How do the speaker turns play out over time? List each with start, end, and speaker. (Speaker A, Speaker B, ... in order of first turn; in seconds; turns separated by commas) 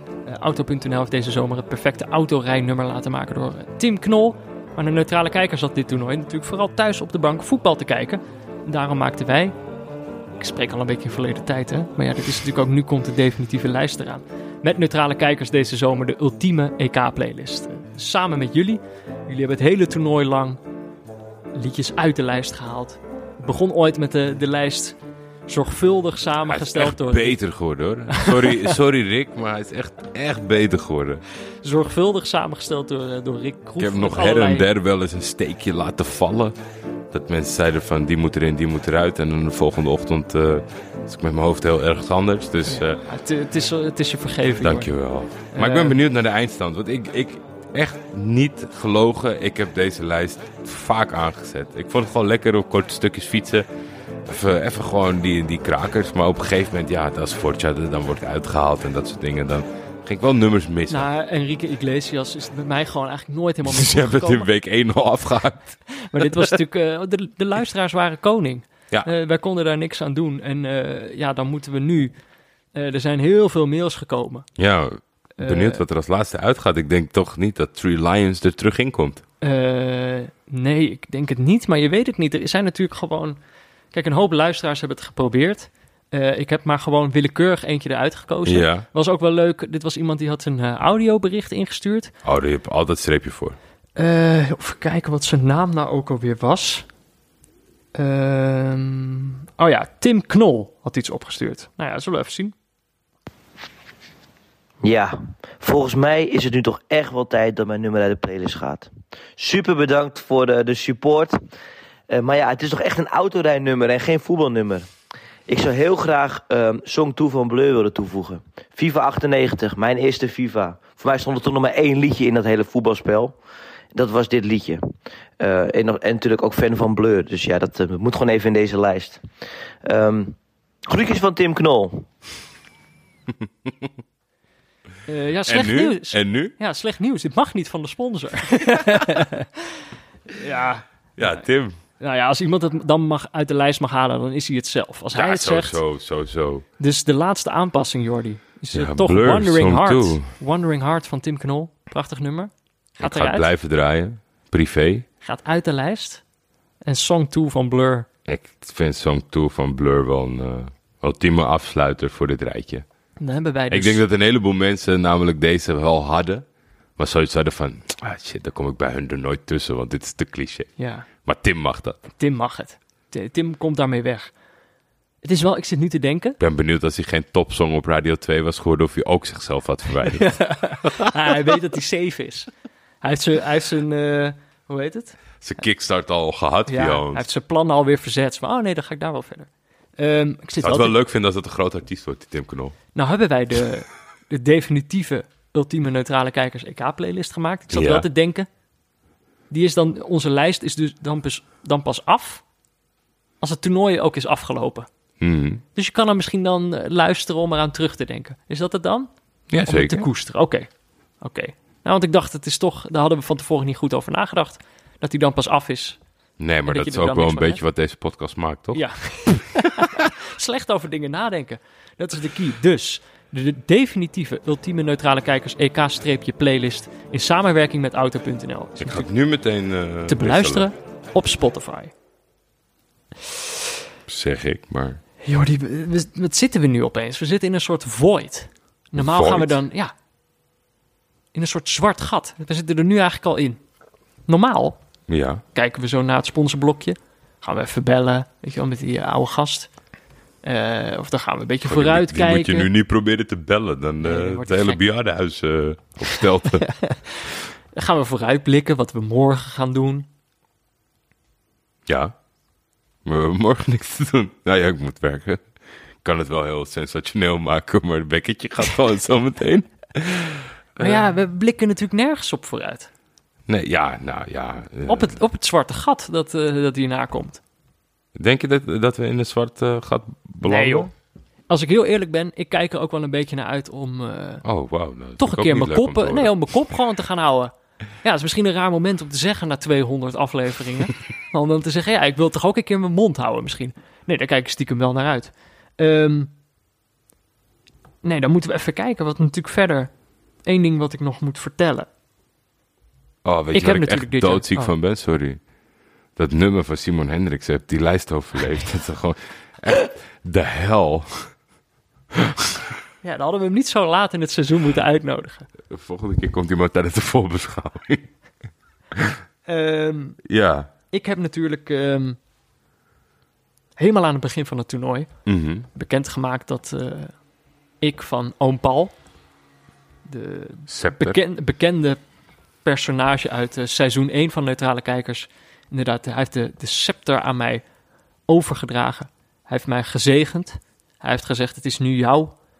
Speaker A: 0.3-9.6, Speaker A: 10.4-20.6, Speaker A: 21.6-27.4, Speaker B: 26.5-31.2, Speaker A: 28.1-28.7, Speaker A: 31.6-34.7, Speaker B: 33.8-36.6, Speaker B: 37.1-43.0, Speaker A: 42.7-44.9, Speaker B: 44.6-53.7, Speaker A: 45.5-46.0, Speaker B: 54.2-61.1, Speaker A: 60.9-64.5, Speaker B: 63.6-65.8, Speaker A: 65.9-72.1, Speaker A: 72.7-74.5, Speaker B: 74.6-79.2, Speaker A: 75.4-75.8, Speaker A: 79.4-83.4, Speaker A: 83.9-92.1, Speaker B: 88.5-88.9, Speaker B: 92.2-93.6, Speaker A: 94.0-96.9, Speaker A: 98.0-102.5, Speaker C: 104.8-111.4, Speaker C: 112.1-114.9, Speaker C: 115.5-123.4, Speaker C: 123.9-129.2, Speaker C: 129.8-132.1, Speaker A: 135.1-139.5, Speaker B: 135.4-136.5, Speaker A: 140.3-141.4, Speaker B: 141.2-141.8, Speaker A: 142.0-145.8, Speaker B: 145.1-146.7, Speaker A: 146.8-153.5, Speaker B: 148.7-150.3, Speaker B: 153.0-155.1, Speaker A: 155.2-156.2, Speaker A: 156.8-158.1, Speaker B: 158.3-162.8, Speaker A: 163.2-164.0, Speaker B: 163.7-166.4, Speaker B: 167.0-172.0, Speaker A: 170.8-171.1, Speaker A: 172.2-174.3, Speaker A: 175.2-176.4, Speaker B: 176.4-181.0, Speaker A: 180.1-182.5, Speaker A: 183.0-185.2, Speaker B: 185.4-187.3, Speaker A: 186.7-190.9, Speaker B: 190.6-192.8, Speaker A: 192.9-198.5, Speaker B: 197.7-198.1, Speaker A: 199.5-202.4, Speaker A: 203.4-204.9, Speaker B: 205.2-205.6, Speaker A: 205.7-209.1, Speaker B: 209.5-210.1, Speaker A: 209.6-210.7, Speaker A: 211.2-216.0, Speaker B: 216.4-219.8, Speaker A: 216.7-217.6, Speaker A: 218.7-229.1, Speaker B: 228.8-230.7, Speaker A: 230.1-231.9, Speaker B: 234.1-235.0, Speaker A: 235.2-239.9, Speaker B: 239.0-239.6, Speaker A: 241.3-243.6, Speaker A: 244.3-244.8, Speaker B: 245.1-245.4, Speaker A: 245.5-249.7, Speaker A: 250.4-252.7, Speaker B: 251.6-256.7, Speaker A: 254.0-254.8, Speaker A: 256.6-257.2, Speaker A: 257.7-260.1, Speaker B: 261.9-262.1, Speaker B: 263.1-265.4, Speaker B: 266.0-271.1, Speaker A: 270.8-272.9, Speaker B: 273.5-275.1, Speaker A: 274.9-277.4, Speaker B: 278.2-280.9, Speaker A: 280.4-280.9, Speaker A: 281.5-284.4, Speaker B: 284.4-286.3, Speaker A: 285.2-296.3, Speaker A: 298.0-299.9, Speaker A: 300.4-301.9, Speaker B: 303.2-305.4, Speaker A: 303.5-304.7, Speaker B: 306.2-311.3, Speaker B: 312.1-312.7, Speaker A: 313.0-315.5, Speaker B: 315.7-318.1, Speaker B: 318.9-319.2, Speaker A: 319.5-320.2, Speaker B: 320.2-320.7, Speaker A: 320.9-322.2, Speaker A: 323.8-325.1, Speaker B: 325.3-325.7, Speaker A: 325.7-327.2, Speaker A: 327.8-328.9, Speaker A: 330.1-332.0, Speaker B: 330.7-331.2, Speaker A: 332.6-337.6, Speaker A: 338.3-342.4